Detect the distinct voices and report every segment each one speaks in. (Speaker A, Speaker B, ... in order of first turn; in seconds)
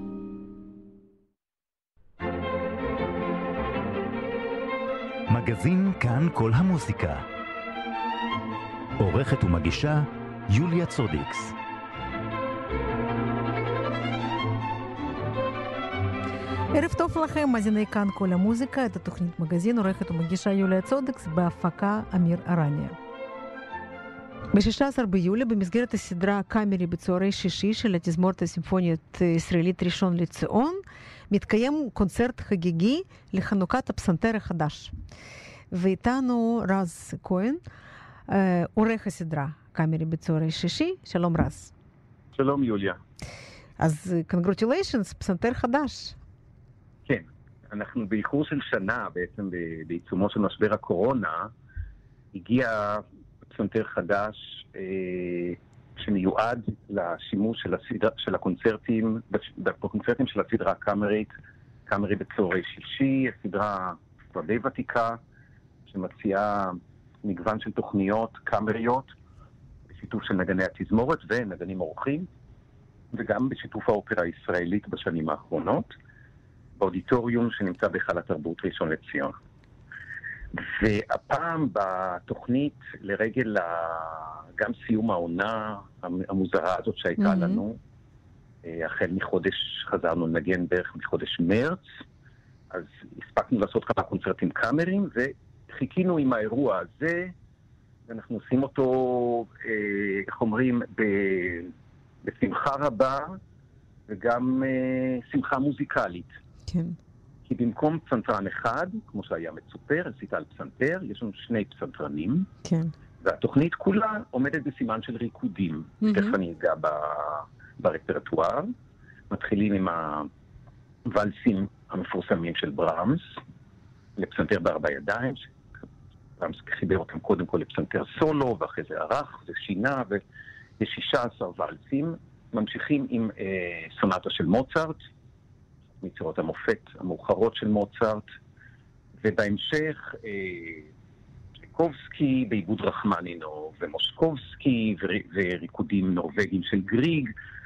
Speaker A: 5.3-7.2, 9.0-11.6
Speaker B: 16.7-23.0, 24.5-34.9, 35.7-37.6, 38.3-41.7, 43.8-46.2, 87.2-87.6, 106.7-107.0, 112.6-112.9, 116.0-116.4
Speaker C: 42.3-43.0, 47.1-51.5, 52.3-61.3, 61.9-65.2, 65.9-69.1, 69.9-72.3, 73.1-75.9, 76.8-79.3, 80.5-87.8, 88.6-91.8, 92.7-97.3, 98.1-101.7, 102.2-103.4, 104.1-106.3, 107.5-112.5, 113.2-118.7, 119.3-120.3, 121.1-123.4, 124.2-125.5, 126.4-130.2, 130.8-135.0, 136.0-138.2, 139.2-140.9, 141.6-147.3